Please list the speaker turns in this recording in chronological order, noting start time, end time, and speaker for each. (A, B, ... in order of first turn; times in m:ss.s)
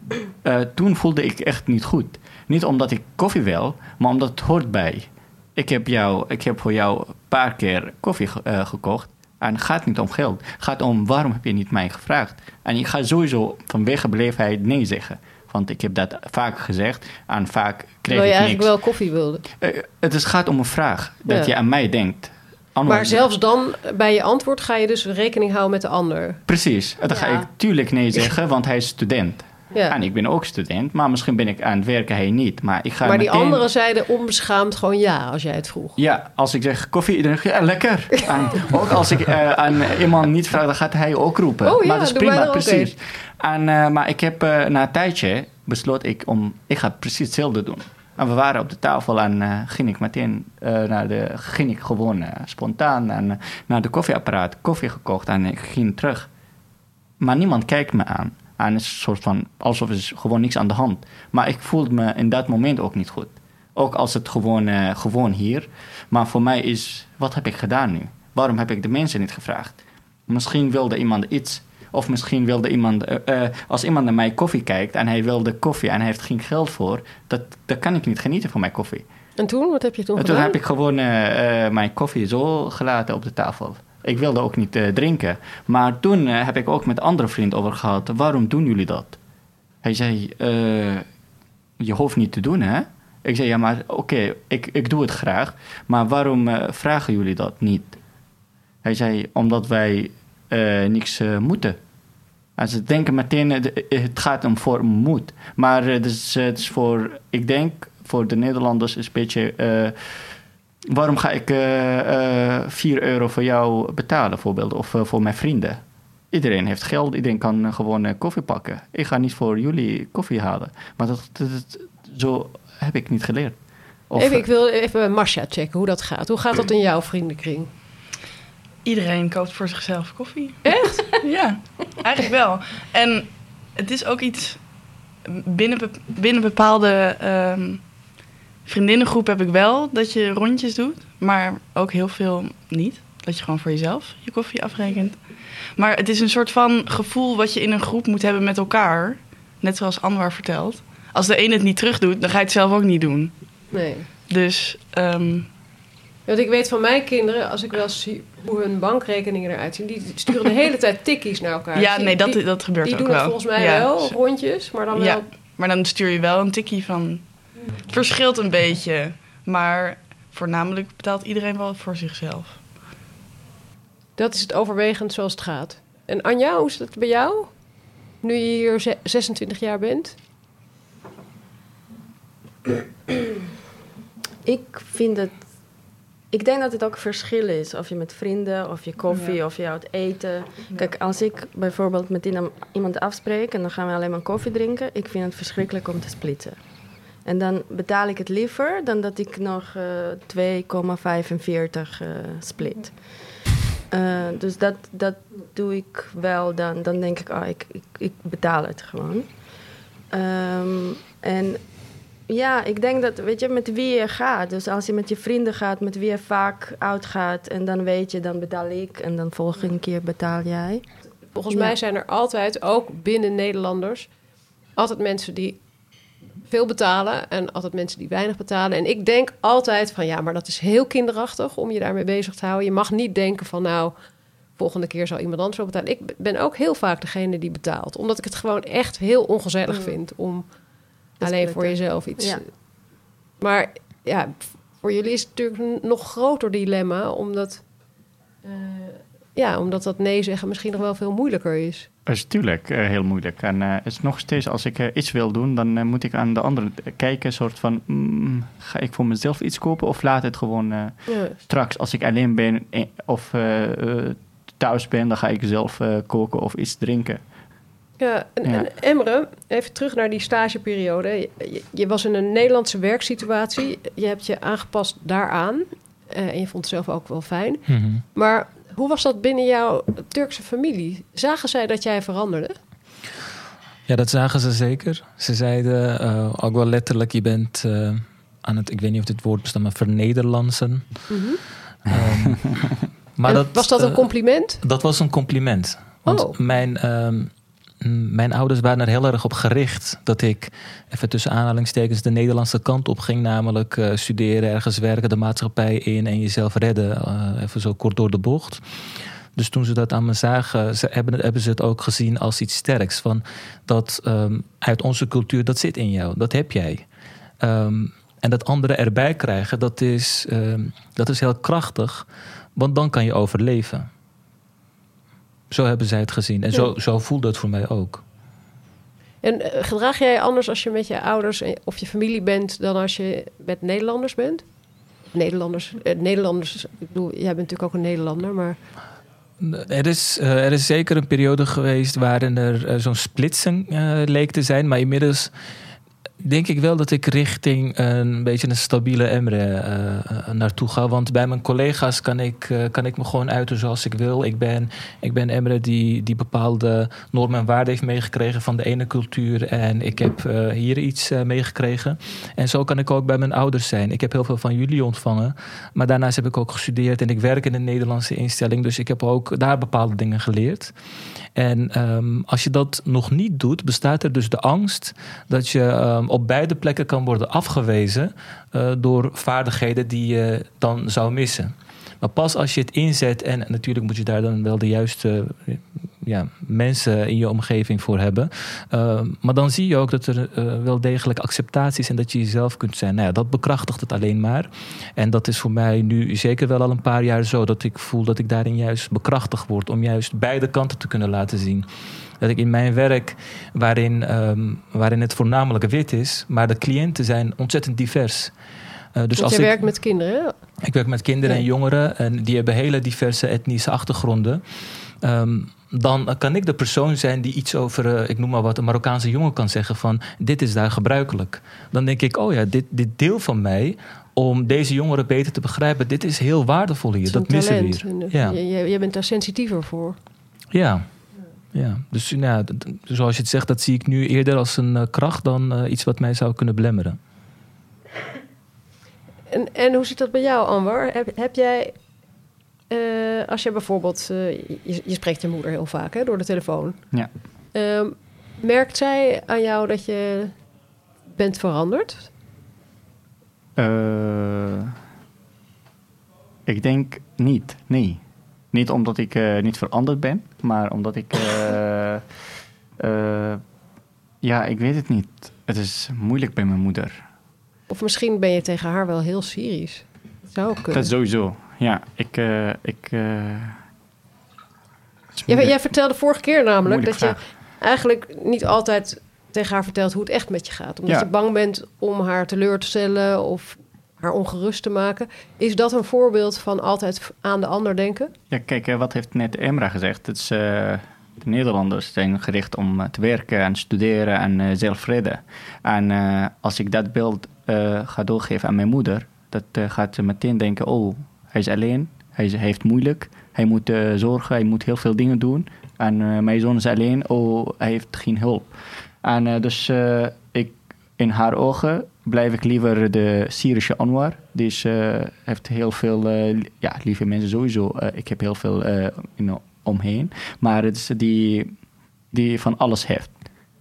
0:00.4-0:18.7 A
0:18.1-0:19.4 B
0:19.6-0:23.3 A
0:21.3-0:21.5 B
0:22.9-0:26.4 B
0:26.5-0:33.6 A
0:33.0-0:36.0 B
0:36.0-0:56.3 A
0:41.6-0:42.9 B
0:57.2-1:19.1 A
1:19.4-1:20.6 B
1:20.2-1:29.2 A
1:29.8-1:31.0 A
1:31.8-1:38.0 A
1:38.8-1:41.8 A
1:42.6-1:50.4 A
1:50.9-2:03.6 A
2:04.1-2:04.4 A
2:04.2-2:07.7 B
2:08.8-2:18.0 C
2:10.6-2:11.1 B
2:18.6-2:33.6 C
2:33.7-2:34.1 B
2:34.3-2:35.5 C
2:36.2-2:45.2 B
2:41.7-2:44.2 C
2:44.9-2:52.6 C
2:54.2-2:57.6 B
2:58.2-3:00.2 B
3:04.4-3:05.4 D
3:06.3-3:16.6 D
3:09.1-3:09.4 C
3:17.2-3:23.0 D
3:23.9-3:29.3 D
3:30.1-3:31.6 D
3:32.3-3:40.8 D
3:41.3-3:44.1 B
3:44.8-3:45.6 B
3:46.4-3:54.0 B
3:54.6-4:00.5 B
4:01.2-4:02.4 D
4:01.2-4:02.5 B
4:03.4-4:07.7 B
4:08.4-4:11.9 B
4:12.0-4:27.2 A
4:21.1-4:21.4 B
4:28.0-4:42.6 B
4:37.7-4:38.0 E
4:43.9-4:51.1 E
4:51.1-4:51.4 B
4:51.9-4:52.5 E
4:53.2-4:54.1 E
4:53.2-4:54.6 B
4:54.6-4:57.3 E
4:56.0-4:56.4 B
4:57.8-5:08.6 E
5:09.4-5:16.8 E
5:17.4-5:23.9 E
5:25.5-5:28.0 E
5:29.2-5:34.4 B
5:35.1-5:38.6 B
5:39.4-5:45.3 E
5:46.2-6:10.7 E
6:11.4-6:41.6 E
6:42.2-6:48.3 E
6:48.9-6:49.5 E
6:49.1-6:50.3 B
6:50.6-6:54.4 E
6:55.0-7:08.3 E
7:07.0-7:10.0 B
7:10.5-7:10.9 E
7:11.5-7:17.0 E
7:19.3-7:21.8 B
7:22.7-7:26.8 B
7:27.5-7:30.3 B
7:31.2-7:32.1 B
7:33.6-7:34.7 A
7:36.4-7:38.0 A
7:38.5-7:42.0 A
7:42.8-7:43.4 A
7:44.2-7:47.0 A
7:47.7-7:50.9 B
7:50.7-7:53.6 A
7:55.1-7:55.6 A
7:55.3-8:08.1 B
7:56.6-7:57.2 A
8:08.3-8:41.5 A
8:42.1-8:43.1 A